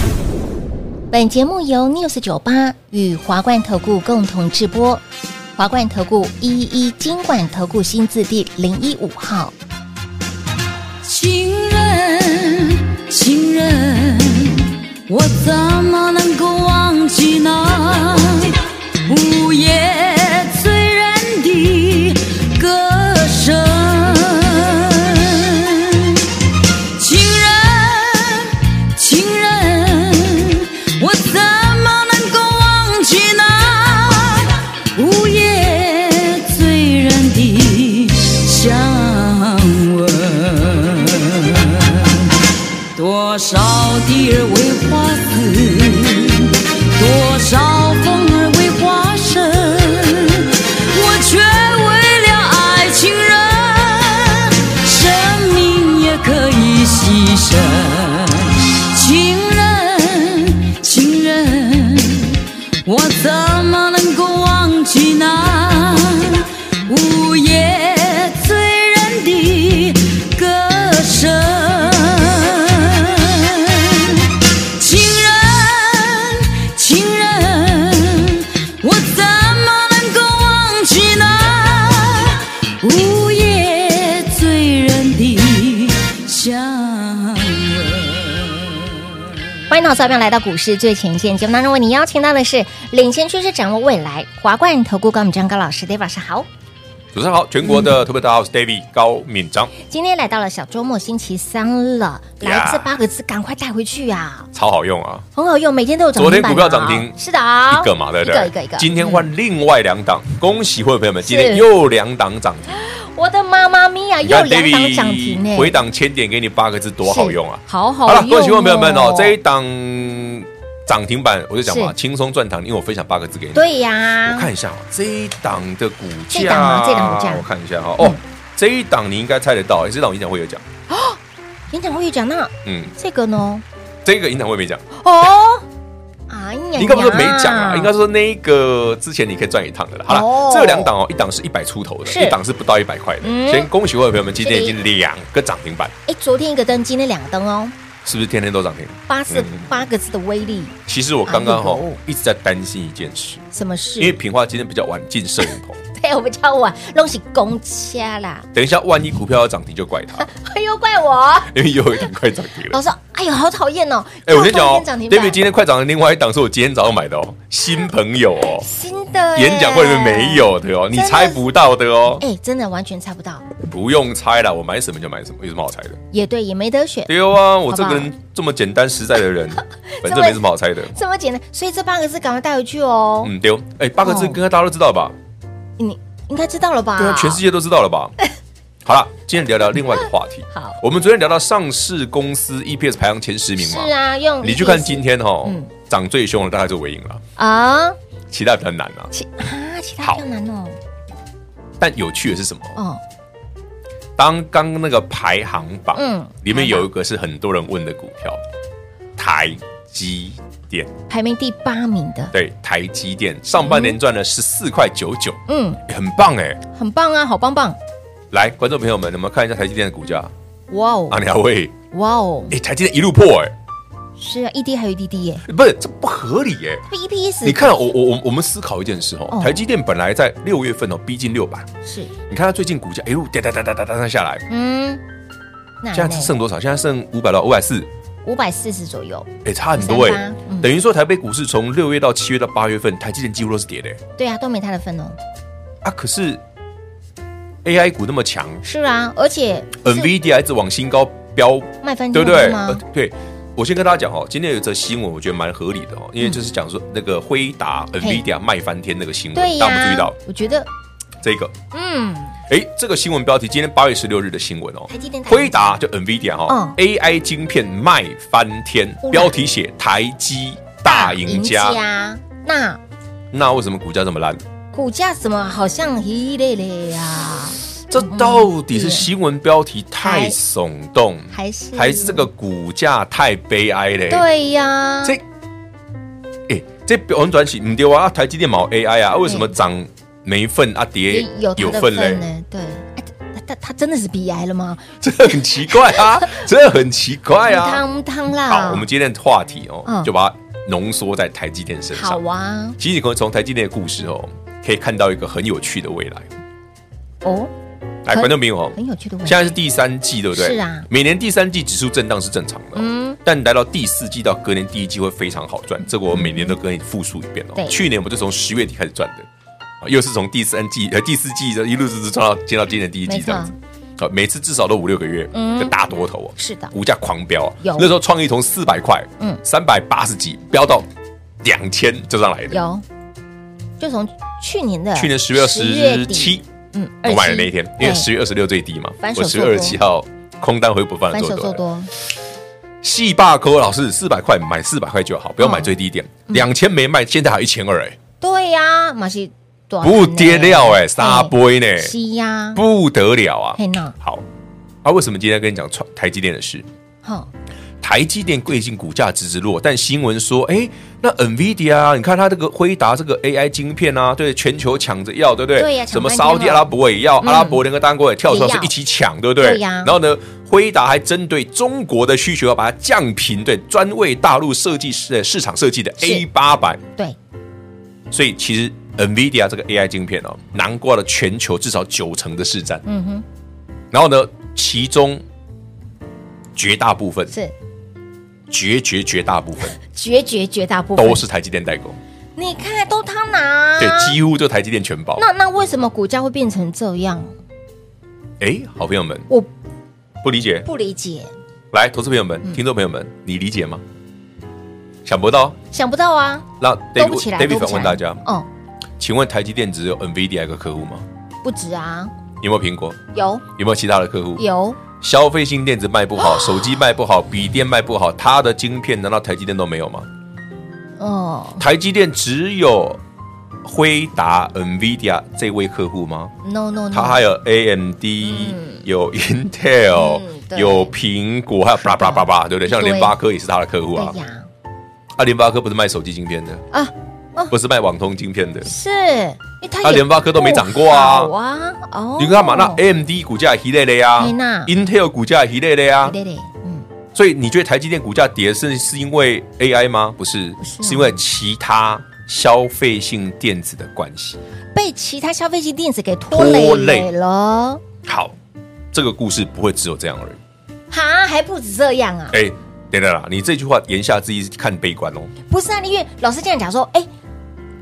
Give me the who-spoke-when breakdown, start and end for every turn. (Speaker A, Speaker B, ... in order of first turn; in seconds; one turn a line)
Speaker A: 1.1-5.0
Speaker A: 5.6-9.5
Speaker B: 11.0-18.5
Speaker B: 19.1-26.2
Speaker B: 27.0-42.3
Speaker B: 42.9-89.0
Speaker A: 89.7-96.5
Speaker C: 97.1-99.7
Speaker A: 99.8-104.5
Speaker C: 102.4-103.0
Speaker C: 104.5-105.2
Speaker A: 105.3-109.3
Speaker C: 106.2-107.1
Speaker C: 107.7-112.7
Speaker A: 111.2-111.7
Speaker A: 112.8-115.8
Speaker C: 114.2-123.7
Speaker A: 117.0-119.3
Speaker A: 121.7-121.9
Speaker A: 123.5-124.5
Speaker C: 124.3-130.6
Speaker A: 126.3-127.5
Speaker A: 130.9-131.2
Speaker A: 131.7-133.6
Speaker C: 132.6-132.9
Speaker C: 134.0-134.8
Speaker A: 134.9-135.6
Speaker A: 136.3-137.9
Speaker C: 136.8-145.9
Speaker A: 140.1-140.9
Speaker A: 142.1-142.4
Speaker A: 143.2-143.7
Speaker A: 144.4-144.8
Speaker A: 146.1-147.7
Speaker C: 148.0-149.6
Speaker A: 149.1-150.7
Speaker C: 150.8-153.4
Speaker A: 151.3-152.0
Speaker A: 153.5-154.2
Speaker C: 154.0-155.8
Speaker A: 155.9-158.5
Speaker C: 158.5-160.3
Speaker A: 160.2-161.5
Speaker C: 161.5-162.8
Speaker A: 162.7-165.4
Speaker C: 164.2-168.7
Speaker A: 168.6-171.4
Speaker C: 169.3-172.2
Speaker A: 172.2-173.5
Speaker C: 173.6-176.0
Speaker A: 176.1-177.1
Speaker C: 177.1-180.9
Speaker A: 177.7-178.1
Speaker A: 179.9-183.3
Speaker C: 183.2-185.1
Speaker A: 184.0-184.4
Speaker A: 185.8-187.4
Speaker C: 187.0-188.1
Speaker C: 188.8-197.2
Speaker A: 190.5-190.8
Speaker A: 193.6-195.7
Speaker A: 197.4-198.0
Speaker C: 198.3-199.1
Speaker A: 199.1-200.8
Speaker C: 201.8-202.8
Speaker A: 202.8-203.0
Speaker C: 204.2-208.4
Speaker A: 205.9-206.9
Speaker C: 209.2-210.9
Speaker A: 211.1-212.3
Speaker C: 212.3-216.6
Speaker A: 213.6-214.0
Speaker A: 215.5-215.8
Speaker A: 216.7-217.8
Speaker C: 218.3-220.3
Speaker A: 220.7-221.2
Speaker C: 221.1-221.7
Speaker A: 221.9-222.5
Speaker C: 222.5-223.5
Speaker A: 224.2-225.4
Speaker C: 225.4-226.8
Speaker A: 226.9-227.7
Speaker C: 227.4-231.7
Speaker A: 229.3-229.6
Speaker A: 231.8-232.1
Speaker C: 232.3-234.4
Speaker A: 234.5-235.0
Speaker A: 235.8-236.3
Speaker C: 235.9-237.9
Speaker A: 238.2-240.7
Speaker C: 239.4-244.0
Speaker A: 244.2-245.2
Speaker C: 245.8-246.4
Speaker C: 247.6-248.6
Speaker A: 248.6-250.1
Speaker C: 249.8-260.1
Speaker A: 251.8-252.8
Speaker A: 259.3-260.7
Speaker C: 261.2-261.5
Speaker A: 261.7-262.4
Speaker C: 262.5-271.8
Speaker A: 264.9-265.8
Speaker A: 266.5-266.8
Speaker A: 269.0-269.4
Speaker A: 270.8-272.8
Speaker C: 273.3-274.4
Speaker A: 274.7-279.1
Speaker C: 277.9-284.2
Speaker A: 280.0-280.4
Speaker A: 281.3-282.3
Speaker A: 284.1-285.2
Speaker C: 286.5-292.2
Speaker A: 289.2-289.5
Speaker A: 291.1-294.9
Speaker C: 295.0-297.8
Speaker A: 295.7-296.4
Speaker A: 297.4-298.9
Speaker C: 298.5-302.2
Speaker A: 301.9-302.8
Speaker C: 302.8-306.3
Speaker A: 307.2-307.5
Speaker C: 308.0-319.3
Speaker A: 308.1-309.6
Speaker A: 310.3-310.9
Speaker A: 312.7-313.2
Speaker A: 316.1-316.5
Speaker C: 319.8-330.9
Speaker A: 323.1-323.5
Speaker A: 325.3-325.7
Speaker A: 326.4-326.7
Speaker A: 327.6-327.9
Speaker C: 331.4-332.6
Speaker A: 332.5-332.8
Speaker A: 333.8-338.1
Speaker C: 334.9-336.4
Speaker C: 337.0-341.6
Speaker A: 339.0-339.8
Speaker A: 341.1-341.9
Speaker C: 342.8-348.0
Speaker A: 345.4-345.7
Speaker A: 348.2-352.6
Speaker C: 349.8-351.9
Speaker C: 352.5-354.2
Speaker A: 353.6-353.9
Speaker C: 354.8-356.6
Speaker A: 357.0-357.3
Speaker C: 357.8-376.8
Speaker A: 365.5-367.6
Speaker A: 368.2-368.7
Speaker A: 369.4-369.9
Speaker A: 376.0-376.2
Speaker C: 378.1-382.8
Speaker A: 382.9-383.2
Speaker C: 383.9-385.2
Speaker C: 386.6-387.3
Speaker C: 388.5-389.8
Speaker A: 389.8-391.2
Speaker C: 390.9-392.0
Speaker A: 392.4-394.2
Speaker C: 393.8-395.2
Speaker A: 395.2-397.3
Speaker C: 398.4-399.3
Speaker C: 400.2-400.6
Speaker A: 400.6-401.3
Speaker C: 401.7-403.8
Speaker C: 405.0-405.6
Speaker A: 405.7-408.5
Speaker C: 406.6-408.2
Speaker C: 409.0-411.0
Speaker A: 411.4-412.1
Speaker C: 412.4-413.0
Speaker A: 413.1-413.4
Speaker C: 413.5-414.4
Speaker A: 414.4-414.8
Speaker C: 415.0-420.1
Speaker A: 416.2-416.7
Speaker A: 421.0-421.6
Speaker C: 421.6-423.0
Speaker C: 423.6-426.3
Speaker A: 426.4-427.2
Speaker C: 426.9-434.1
Speaker A: 428.2-428.8
Speaker A: 429.9-430.9
Speaker A: 431.8-433.1
Speaker A: 433.9-434.5
Speaker C: 435.1-436.6
Speaker A: 436.7-437.5
Speaker C: 437.5-438.7
Speaker A: 438.6-442.8
Speaker C: 439.8-441.3
Speaker C: 442.2-446.1
Speaker A: 444.2-444.7
Speaker A: 446.0-446.8
Speaker C: 447.1-454.4
Speaker A: 450.6-451.2
Speaker A: 454.7-457.8
Speaker C: 456.3-457.1
Speaker C: 458.0-458.3
Speaker C: 458.9-460.4
Speaker A: 460.9-462.4
Speaker C: 462.3-465.3
Speaker A: 465.5-467.1